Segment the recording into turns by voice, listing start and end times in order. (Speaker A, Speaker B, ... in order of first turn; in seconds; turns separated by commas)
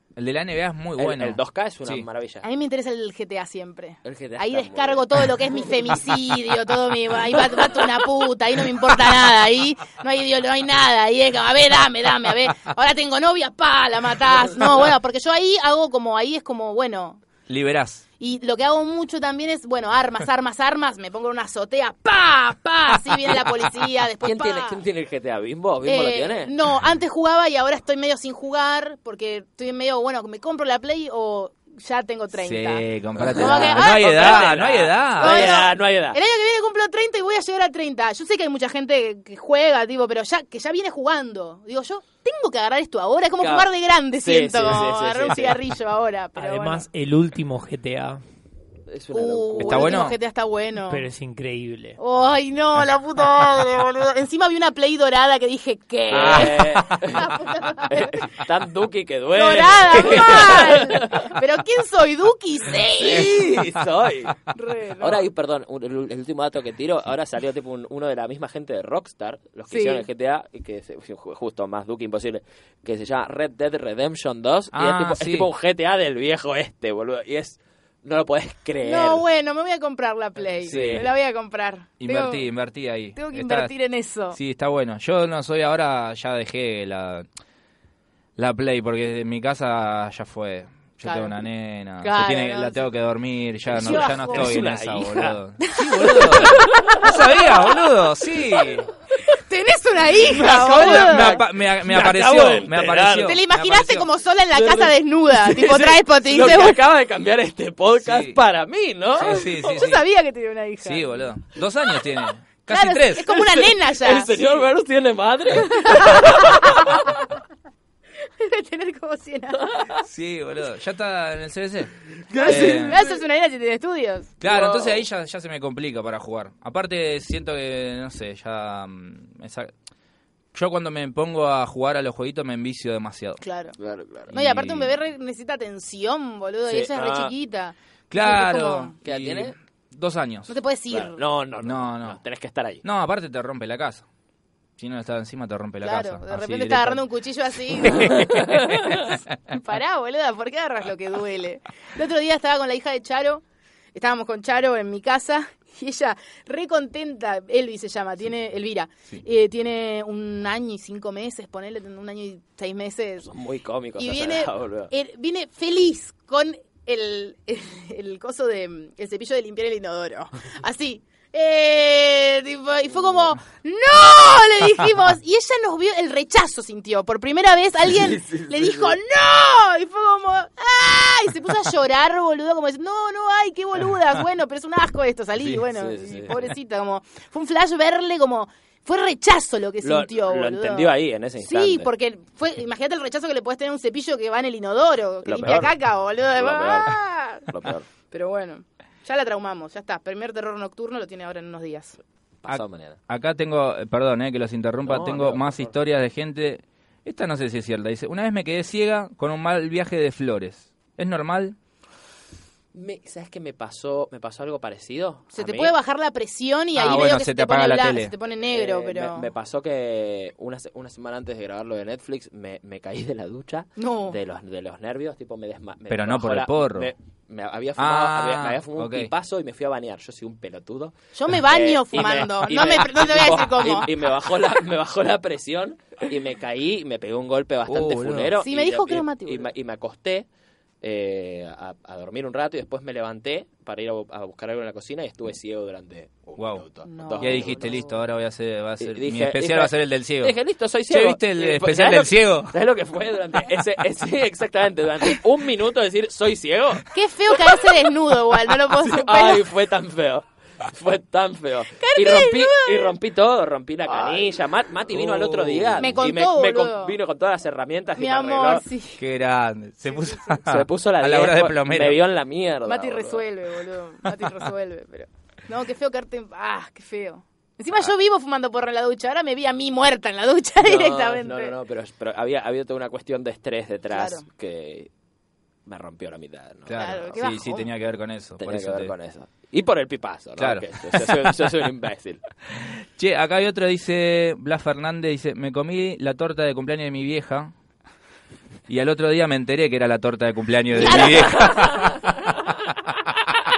Speaker A: 0.2-2.0, Speaker B: 1.0-2.5, Speaker C: 2.4-17.2, Speaker B: 4.0-5.9, Speaker A: 17.5-18.0, Speaker C: 18.2-24.8, Speaker B: 24.2-26.5, Speaker C: 25.8-32.8, Speaker A: 32.4-35.5, Speaker B: 33.1-36.2, Speaker C: 33.4-34.6, Speaker C: 35.2-46.9, Speaker B: 43.4-45.6, Speaker D: 46.4-48.2, Speaker B: 48.9-50.0, Speaker C: 49.1-51.0, Speaker A: 49.6-50.2, Speaker D: 50.9-52.0, Speaker C: 52.0-58.4, Speaker B: 56.1-61.3, Speaker A: 56.1-57.0, Speaker C: 59.3-63.4, Speaker B: 63.0-64.3, Speaker A: 63.2-63.8, Speaker C: 64.5-65.3, Speaker B: 65.0-79.2, Speaker C: 69.7-70.0, Speaker A: 74.7-75.5, Speaker C: 78.8-82.5, Speaker B: 80.6-81.1, Speaker A: 80.7-81.1, Speaker A: 82.0-83.7, Speaker C: 83.1-84.4, Speaker A: 84.3-87.2, Speaker A: 88.4-98.9, Speaker C: 91.0-91.3, Speaker C: 92.0-92.8, Speaker B: 93.7-95.4, Speaker C: 93.7-94.5, Speaker C: 95.6-97.7, Speaker B: 96.2-97.2, Speaker C: 99.2-101.4, Speaker B: 100.2-103.4, Speaker A: 100.4-104.1, Speaker C: 103.2-106.8, Speaker B: 104.5-109.6, Speaker A: 108.0-108.4, Speaker A: 109.2-110.0, Speaker C: 109.4-111.1, Speaker A: 110.8-113.3, Speaker C: 112.7-114.5, Speaker B: 113.3-117.1, Speaker C: 115.5-117.1, Speaker C: 118.2-119.7, Speaker B: 119.6-120.0, Speaker A: 120.0-123.0, Speaker B: 122.3-123.2, Speaker C: 122.4-124.3, Speaker A: 124.4-129.7, Speaker B: 124.4-125.0, Speaker A: 130.5-133.4, Speaker C: 133.4-133.7, Speaker B: 133.8-134.3, Speaker A: 134.3-134.9, Speaker C: 134.3-138.9, Speaker B: 136.7-137.3, Speaker A: 138.1-140.5, Speaker B: 139.0-139.6, Speaker C: 140.5-141.2, Speaker B: 140.9-142.8, Speaker A: 141.6-142.2, Speaker A: 142.8-144.1, Speaker A: 144.8-147.0, Speaker C: 145.8-153.4, Speaker B: 148.2-148.8, Speaker C: 153.9-163.3, Speaker B: 163.2-164.9, Speaker C: 164.0-197.5, Speaker B: 178.0-179.0, Speaker B: 185.7-186.4, Speaker B: 189.8-191.9, Speaker B: 195.2-195.7, Speaker A: 195.4-195.7, Speaker B: 196.3-197.9, Speaker C: 198.1-202.0, Speaker B: 202.4-203.0, Speaker A: 202.5-211.6, Speaker B: 204.8-205.7, Speaker B: 212.7-215.7, Speaker C: 215.3-219.3, Speaker A: 216.7-218.1, Speaker B: 218.5-240.3, Speaker C: 223.8-224.2, Speaker A: 225.9-226.9, Speaker A: 227.8-229.1, Speaker C: 231.1-233.9, Speaker A: 237.7-238.3, Speaker C: 238.4-239.5, Speaker B: 240.8-247.8, Speaker A: 246.4-246.6, Speaker C: 246.8-247.9, Speaker A: 247.2-252.6, Speaker B: 248.8-256.8, Speaker C: 256.9-259.4, Speaker B: 258.7-268.6, Speaker C: 261.8-262.9, Speaker A: 264.9-266.0, Speaker C: 265.8-266.9, Speaker C: 268.0-269.0, Speaker A: 269.0-272.0, Speaker C: 269.9-270.4, Speaker B: 270.4-273.2, Speaker C: 272.6-281.6, Speaker B: 280.6-284.9, Speaker C: 283.9-284.3, Speaker B: 285.6-287.0, Speaker A: 286.7-288.9, Speaker C: 286.7-287.7, Speaker B: 288.4-292.2, Speaker A: 290.4-291.4, Speaker A: 292.5-297.5, Speaker A: 298.7-302.0, Speaker C: 300.7-301.8, Speaker B: 300.9-302.2